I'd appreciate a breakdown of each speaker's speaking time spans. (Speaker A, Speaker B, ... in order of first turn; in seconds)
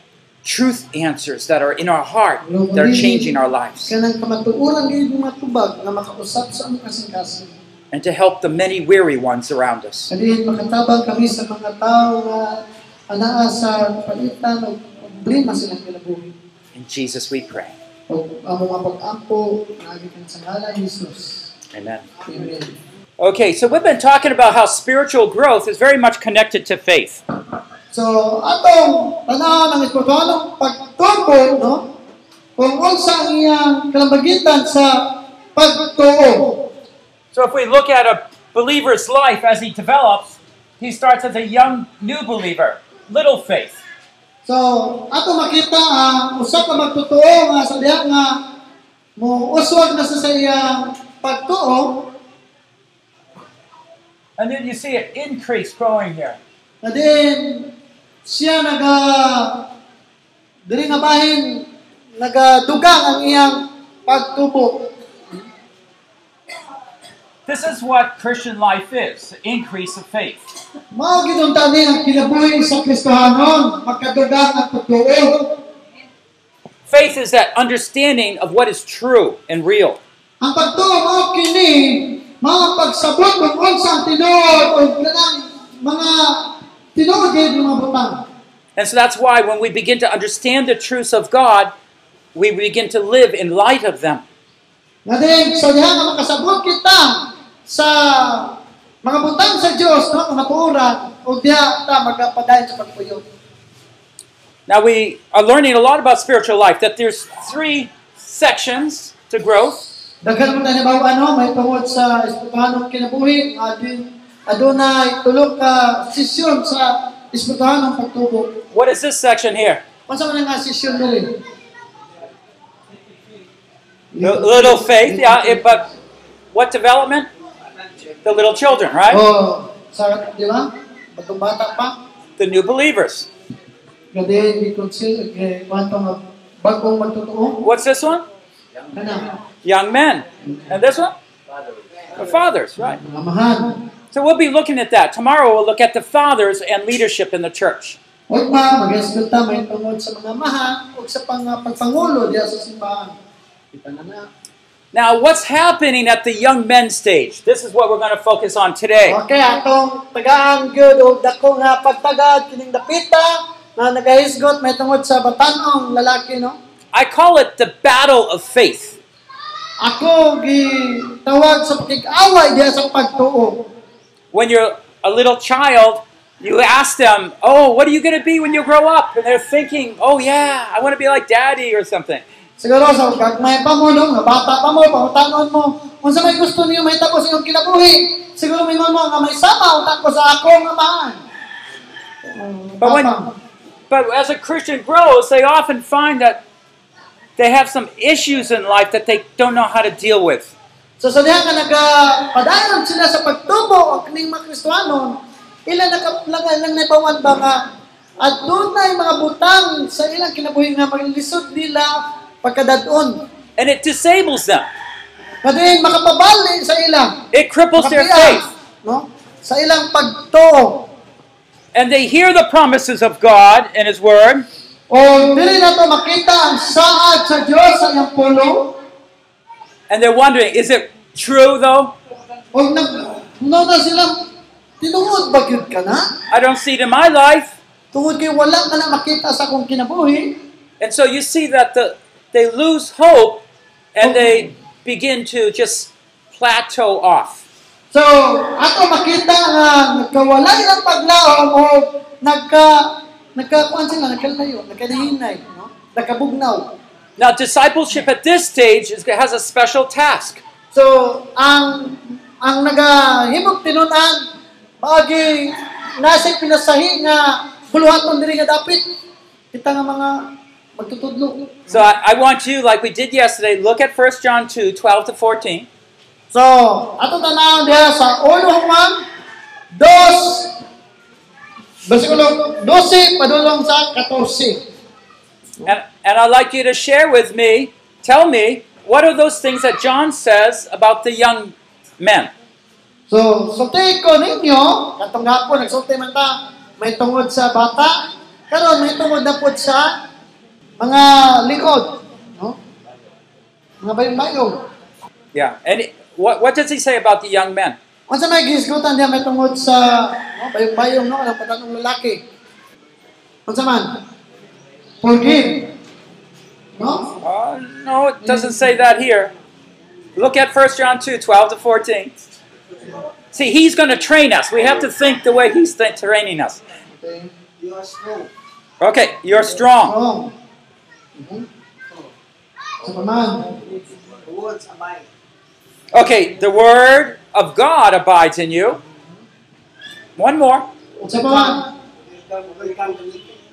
Speaker A: 0.4-3.9, 7.9-10.1, 16.7-17.7, 21.7-22.1, 23.2-27.2, 37.3-43.8, 54.4-56.4, 67.5-70.4, 76.9-80.0, 88.8-91.7, 92.3-94.2, 104.7-109.9, 118.7-119.8, 124.2-125.8, 126.5-127.3, 128.2-129.2, 132.4-133.3, 137.6-138.2, 139.6-141.1, 142.1-143.0, 144.1-148.0, 154.9-159.2, 166.9-169.0, 174.3-182.2, 192.8-193.1, 193.9-196.4, 197.4-200.5, 213.6-214.7, 217.3-218.5, 221.7-224.5, 229.9-231.9, 236.3-237.6, 240.8-247.4, 257.2-260.4, 271.7-275.7, 285.6-292.3, 305.3-307.8, 317.2-319.3, 320.1-322.2, 323.3-326.6, 328.8-329.9, 335.9-338.8, 340.2-340.7
Speaker B: 2.4-7.5, 10.1-16.3, 18.1-21.5, 22.2-22.7, 27.9-31.9, 32.6-36.7, 44.4-48.5, 49.2-52.1, 56.8-57.7, 58.2-59.7, 60.6-64.9, 70.9-75.6, 80.4-88.2, 95.0-103.2, 110.2-118.6, 120.1-121.4, 124.1-125.8, 129.1-132.0, 134.1-137.6, 138.9-139.4, 142.8-143.8, 148.3-153.1, 153.7-154.3, 159.0-166.6, 169.8-173.7, 182.6-191.2, 192.2-193.3, 201.0-207.6, 208.2-213.2, 215.4-217.2, 217.8-220.9, 224.9-228.8, 232.5-234.2, 234.8-236.1, 237.9-240.4, 244.0-244.4, 247.9-256.7, 260.7-264.3, 264.8-268.8, 269.5-271.8, 276.3-279.0, 279.7-280.6, 281.9-284.6, 293.1-300.0, 300.8-302.6, 303.8-304.6, 308.1-312.2, 313.5-314.0, 315.0-315.7, 316.8-317.2, 318.2-318.6, 327.0-327.3, 329.8-330.3, 331.2-331.4, 332.8-333.6, 341.0-341.6
Speaker C: 327.6-328.3, 333.6-335.1, 341.1-343.4